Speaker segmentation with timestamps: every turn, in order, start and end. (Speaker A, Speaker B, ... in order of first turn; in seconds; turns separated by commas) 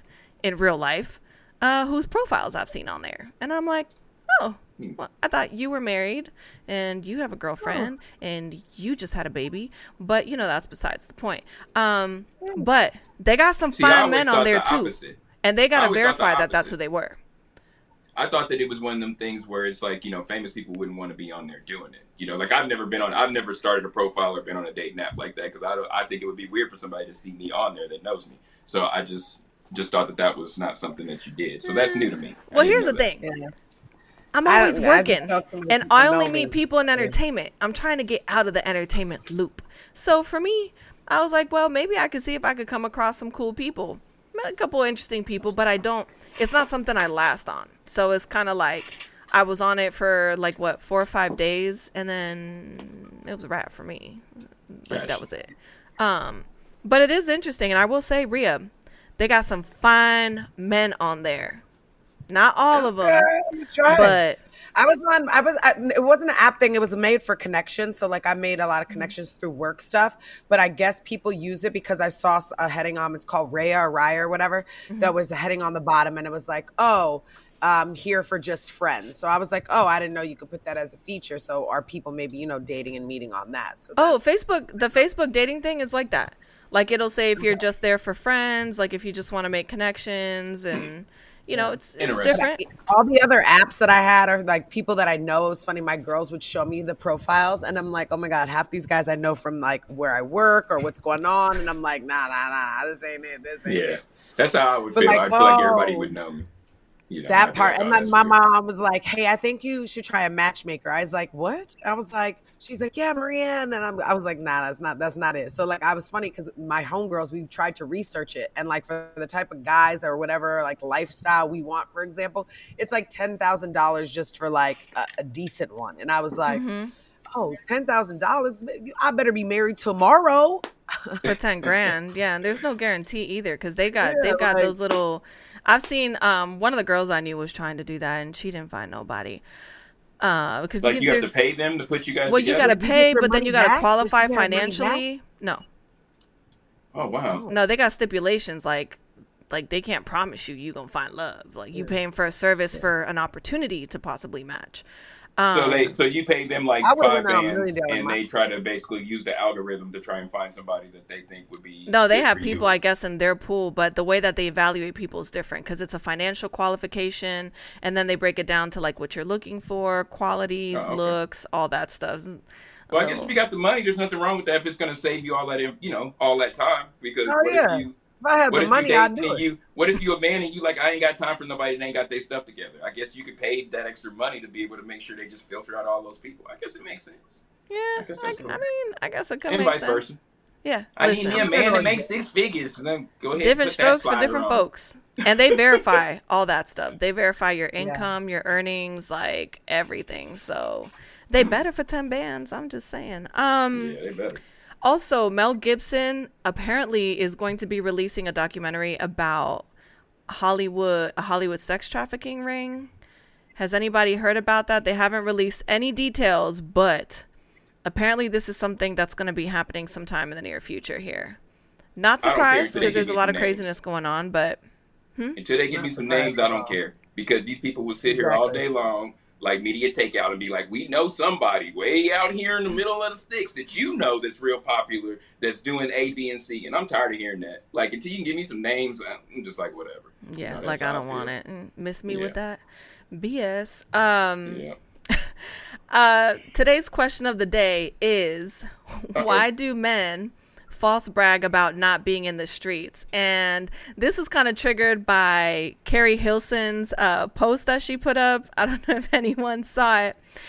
Speaker A: 0.4-17.2, Speaker B: 7.6-7.9, Speaker C: 13.8-15.2, Speaker C: 15.7-16.7, Speaker C: 18.1-33.0, Speaker A: 31.6-33.2, Speaker B: 33.2-33.5, Speaker A: 34.3-61.6, Speaker B: 34.5-37.1, Speaker C: 54.9-55.2, Speaker A: 62.3-63.3, Speaker B: 62.7-64.2, Speaker A: 63.9-64.4, Speaker C: 63.9-64.1, Speaker B: 64.7-84.2, Speaker A: 74.9-75.1, Speaker A: 84.0-92.6, Speaker C: 92.0-92.4, Speaker B: 92.3-104.0, Speaker C: 103.7-106.5, Speaker B: 104.9-106.1, Speaker C: 107.1-108.3, Speaker B: 107.3-126.6, Speaker A: 126.5-126.9, Speaker B: 127.3-131.2, Speaker C: 131.2-131.8, Speaker A: 131.2-139.4, Speaker B: 134.0-134.7, Speaker A: 140.2-141.3, Speaker C: 140.8-142.7, Speaker A: 142.2-145.6, Speaker B: 142.6-145.0, Speaker C: 146.9-147.4, Speaker A: 147.5-154.8, Speaker A: 155.4-155.9, Speaker C: 155.5-162.7, Speaker B: 156.8-158.2, Speaker A: 161.9-173.3, Speaker C: 170.7-171.2, Speaker C: 172.9-177.9, Speaker B: 177.3-179.4, Speaker C: 178.5-187.4, Speaker A: 187.7-190.1, Speaker C: 188.0-188.6, Speaker C: 189.5-190.2, Speaker A: 190.6-191.5, Speaker C: 191.0-194.7, Speaker B: 191.3-192.1, Speaker A: 193.3-204.0, Speaker C: 195.2-195.9, Speaker B: 197.8-198.1, Speaker C: 201.3-201.6, Speaker C: 203.7-204.4, Speaker A: 204.8-209.7, Speaker A: 210.3-212.9, Speaker A: 213.6-217.2, Speaker A: 217.8-221.4, Speaker A: 221.9-224.6, Speaker C: 222.2-223.8, Speaker B: 222.8-223.0, Speaker C: 225.4-241.3, Speaker B: 225.7-226.8, Speaker B: 228.0-228.6, Speaker A: 240.3-242.6, Speaker C: 242.1-242.3, Speaker A: 243.1-260.2, Speaker C: 244.4-244.8, Speaker C: 249.2-249.5